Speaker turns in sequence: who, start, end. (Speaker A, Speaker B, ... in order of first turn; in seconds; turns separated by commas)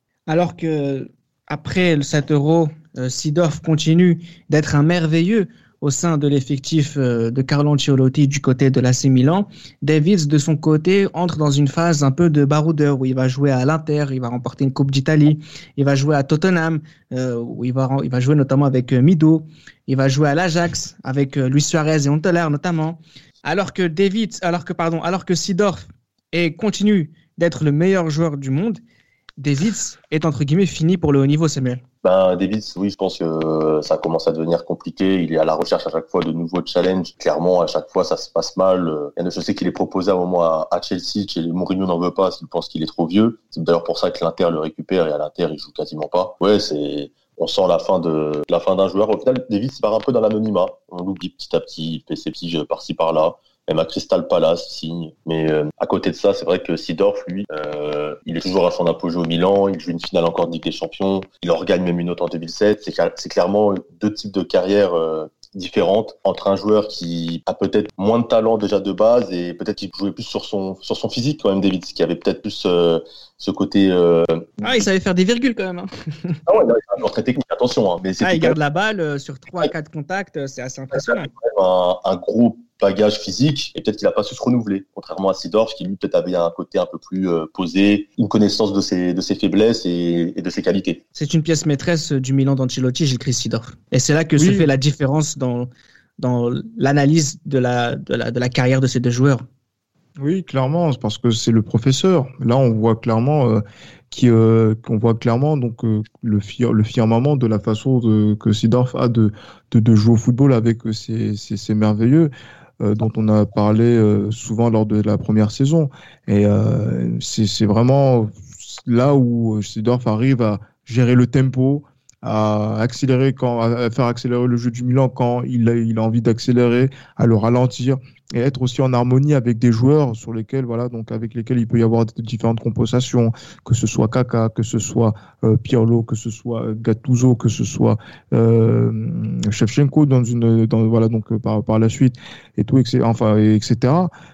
Speaker A: 0.3-28.8, Speaker A: 29.4-31.8, Speaker B: 32.0-74.6, Speaker A: 74.6-76.4, Speaker B: 76.5-78.5, Speaker A: 78.2-81.3, Speaker B: 80.9-91.0, Speaker A: 91.1-95.7, Speaker C: 94.4-94.7, Speaker A: 96.2-99.4, Speaker C: 100.2-144.1